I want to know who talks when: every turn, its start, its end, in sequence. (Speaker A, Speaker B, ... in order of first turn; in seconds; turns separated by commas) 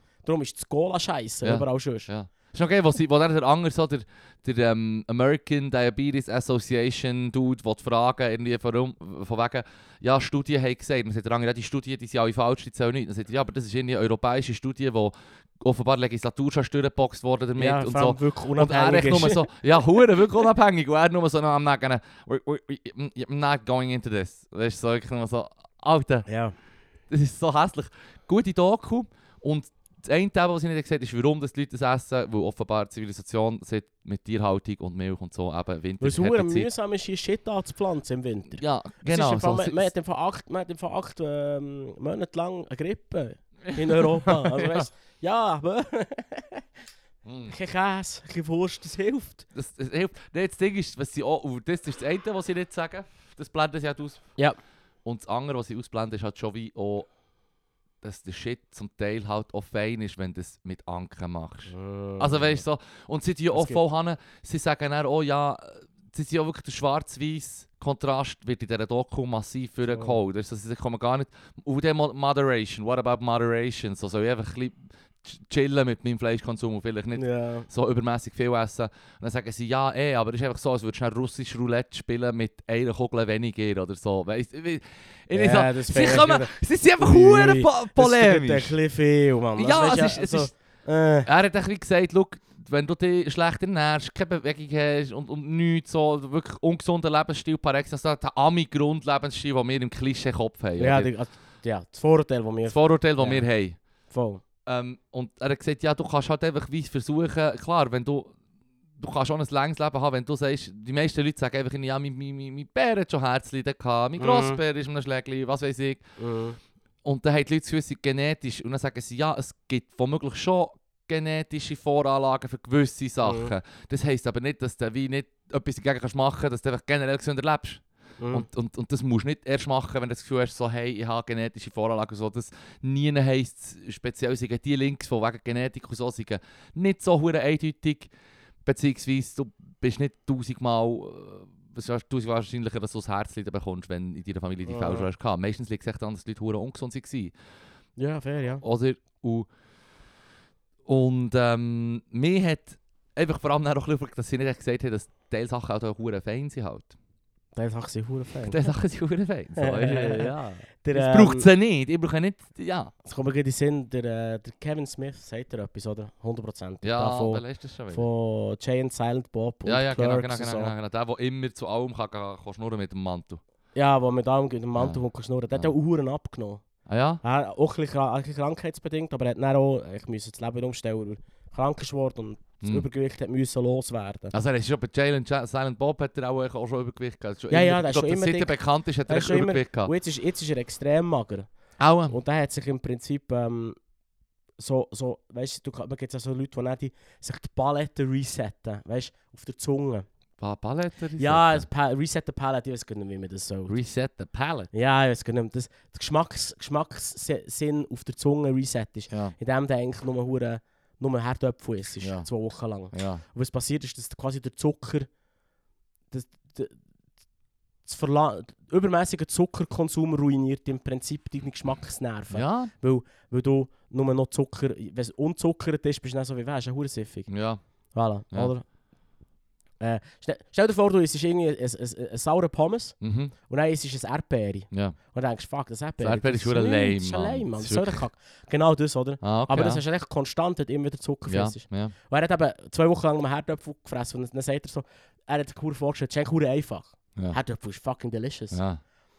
Speaker A: 0.2-2.1, Speaker B: 1.4-26.3, Speaker A: 17.6-19.5, Speaker A: 26.3-26.6, Speaker B: 27.1-36.7, Speaker A: 36.0-46.7, Speaker B: 38.6-39.9, Speaker B: 43.7-44.9, Speaker B: 47.2-47.5, Speaker A: 47.5-49.5, Speaker B: 49.5-54.3, Speaker B: 55.0-57.1, Speaker B: 58.0-88.7, Speaker A: 61.7-62.6, Speaker A: 63.5-63.8, Speaker A: 69.9-70.2, Speaker A: 77.2-77.7, Speaker A: 85.3-91.3, Speaker B: 89.6-90.5, Speaker B: 91.2-101.1, Speaker A: 100.8-103.4, Speaker B: 102.7-103.8, Speaker A: 104.1-104.4, Speaker B: 104.7-108.3, Speaker B: 109.0-116.0, Speaker A: 114.2-114.6, Speaker A: 116.2-116.6, Speaker B: 117.0-138.1, Speaker A: 123.2-123.5, Speaker A: 128.2-128.5, Speaker B: 138.7-147.3, Speaker A: 144.7-145.1, Speaker A: 148.0-148.6, Speaker B: 148.6-149.5, Speaker B: 150.9-156.9, Speaker A: 157.6-158.6, Speaker B: 158.4-162.9, Speaker A: 159.6-161.5, Speaker A: 163.0-170.7, Speaker B: 166.8-168.1, Speaker B: 169.7-173.4, Speaker A: 173.8-176.6, Speaker B: 176.9-177.2, Speaker A: 177.2-184.3, Speaker B: 182.6-182.9, Speaker B: 184.3-189.9, Speaker A: 187.5-188.6, Speaker A: 189.1-191.5, Speaker B: 191.8-192.2, Speaker A: 192.1-193.8, Speaker A: 194.6-200.1, Speaker B: 200.4-201.6, Speaker A: 201.2-203.8, Speaker B: 203.7-204.7, Speaker A: 204.7-215.1, Speaker B: 209.1-209.3, Speaker B: 212.0-212.3, Speaker B: 212.9-213.2, Speaker A: 216.1-216.8, Speaker A: 217.8-227.3, Speaker B: 222.3-222.7, Speaker B: 227.3-227.6, Speaker A: 227.9-228.6, Speaker A: 229.8-233.0, Speaker B: 233.0-233.3, Speaker A: 233.5-248.6, Speaker B: 234.7-235.0, Speaker B: 236.0-238.0, Speaker B: 239.2-239.8, Speaker B: 241.3-241.9, Speaker B: 248.5-248.8